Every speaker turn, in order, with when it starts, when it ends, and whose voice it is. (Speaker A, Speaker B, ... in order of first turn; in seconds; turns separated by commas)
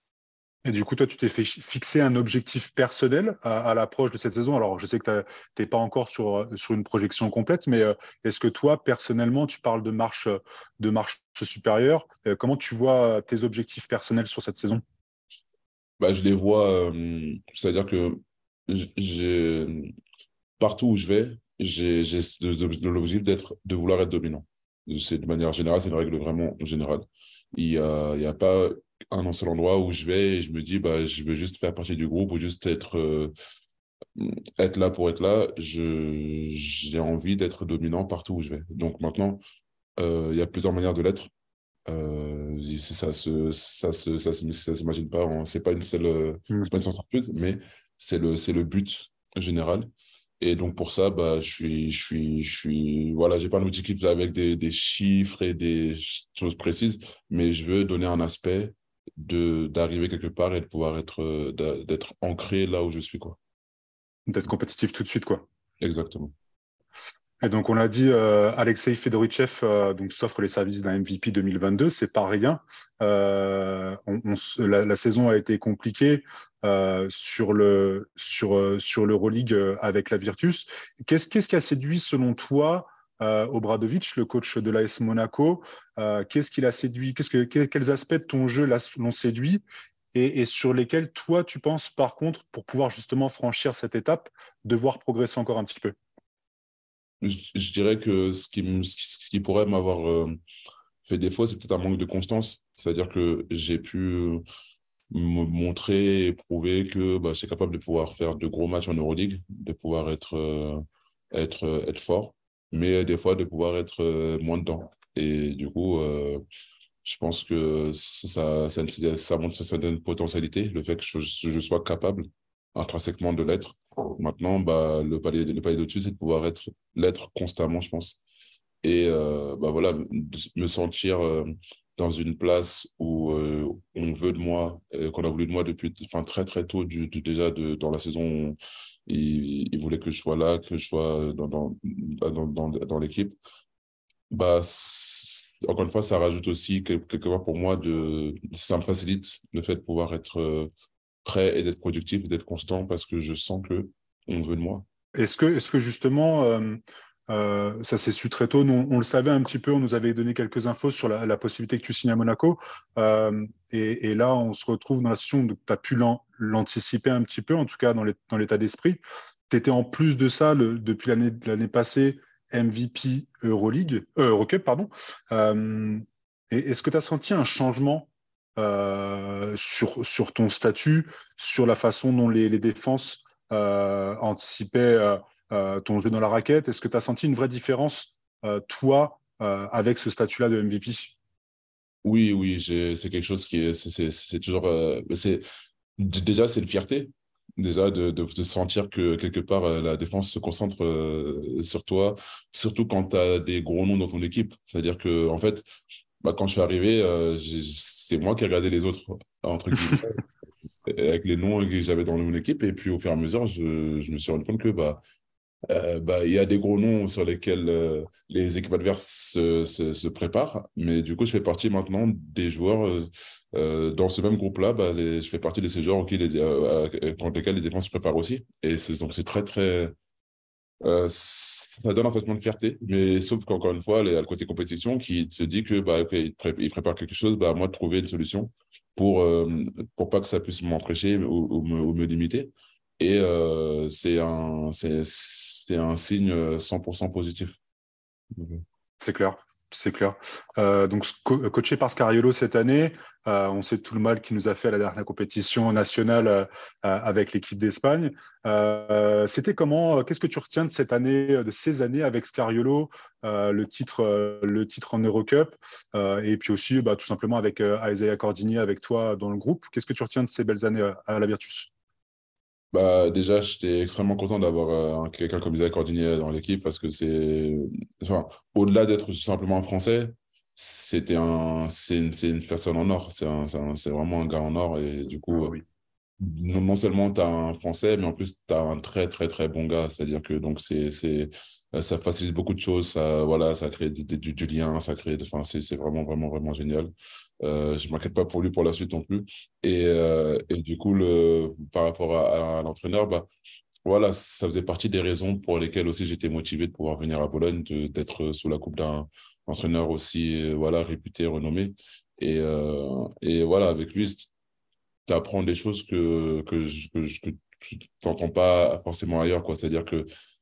Speaker A: 0.7-14.8, Speaker B: 16.0-19.9, Speaker B: 20.6-33.3, Speaker B: 34.2-39.4, Speaker B: 40.0-41.3, Speaker B: 41.9-49.9, Speaker B: 50.4-63.4, Speaker A: 64.3-65.5, Speaker B: 65.8-66.3, Speaker A: 67.4-89.6, Speaker A: 90.1-96.0, Speaker B: 97.2-100.4, Speaker B: 101.0-104.4, Speaker B: 105.1-110.8, Speaker B: 111.3-116.4, Speaker B: 117.0-128.2, Speaker B: 128.8-143.4, Speaker B: 144.3-150.7, Speaker B: 151.2-154.9, Speaker A: 155.2-191.2, Speaker B: 192.0-195.4, Speaker B: 196.0-205.7, Speaker B: 206.2-210.2, Speaker B: 210.9-215.0, Speaker B: 215.7-230.0, Speaker B: 230.8-247.6, Speaker B: 248.3-248.6, Speaker A: 249.0-271.7, Speaker B: 272.7-285.6, Speaker A: 285.3-285.6, Speaker B: 286.2-303.3, Speaker B: 303.9-314.3, Speaker B: 315.1-320.1